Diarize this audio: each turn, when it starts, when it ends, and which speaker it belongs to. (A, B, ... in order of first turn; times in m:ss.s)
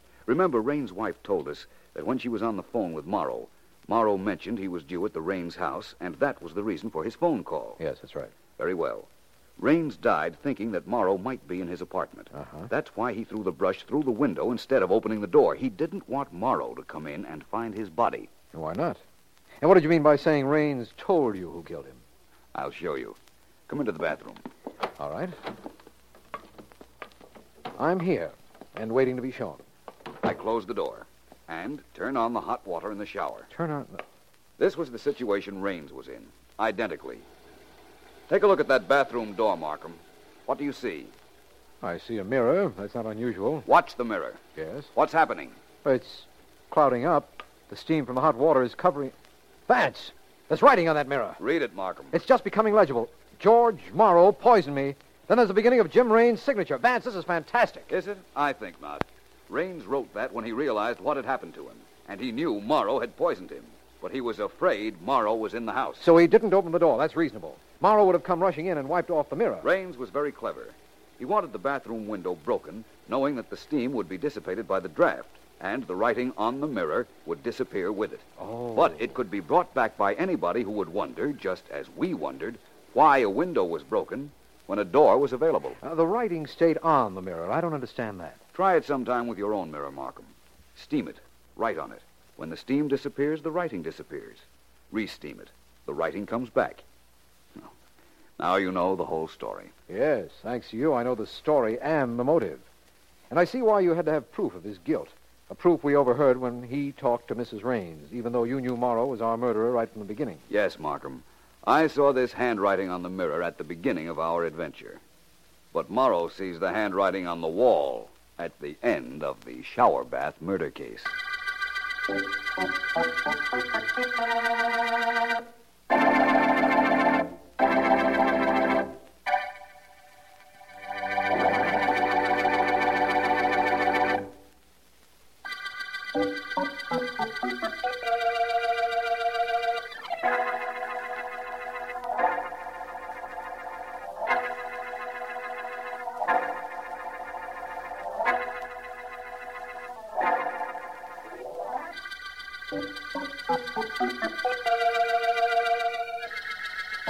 0:00.3-0:07.8 A
0:07.8-0:08.3 B
0:08.6-0:18.3 A
0:12.3-0:12.7 B
0:18.5-0:19.0 B
0:19.6-0:22.0 B
0:22.5-0:23.2 A
0:23.7-0:24.4 A
0:25.0-0:25.4 B
0:27.8-0:29.6 B
0:30.2-0:33.5 A
0:33.5-0:34.0 B
0:34.6-0:37.3 A
0:38.3-0:41.1 A
0:41.8-0:43.7 B
0:43.7-0:44.4 A
0:44.6-0:44.9 B
0:45.0-0:45.6 A
0:45.8-0:49.2 B
0:49.7-0:51.4 B
0:51.4-0:52.2 A
0:52.1-0:57.9 B
0:57.9-1:06.1 A
1:06.0-1:09.7 B
1:09.6-1:25.8 A
1:18.4-1:19.2 B
1:25.8-1:28.4 B
1:28.5-1:36.8 A
1:38.4-1:39.7 A
1:39.9-1:42.7 B
1:43.3-1:50.4 B
1:50.5-1:55.0 A
1:55.7-2:01.1 A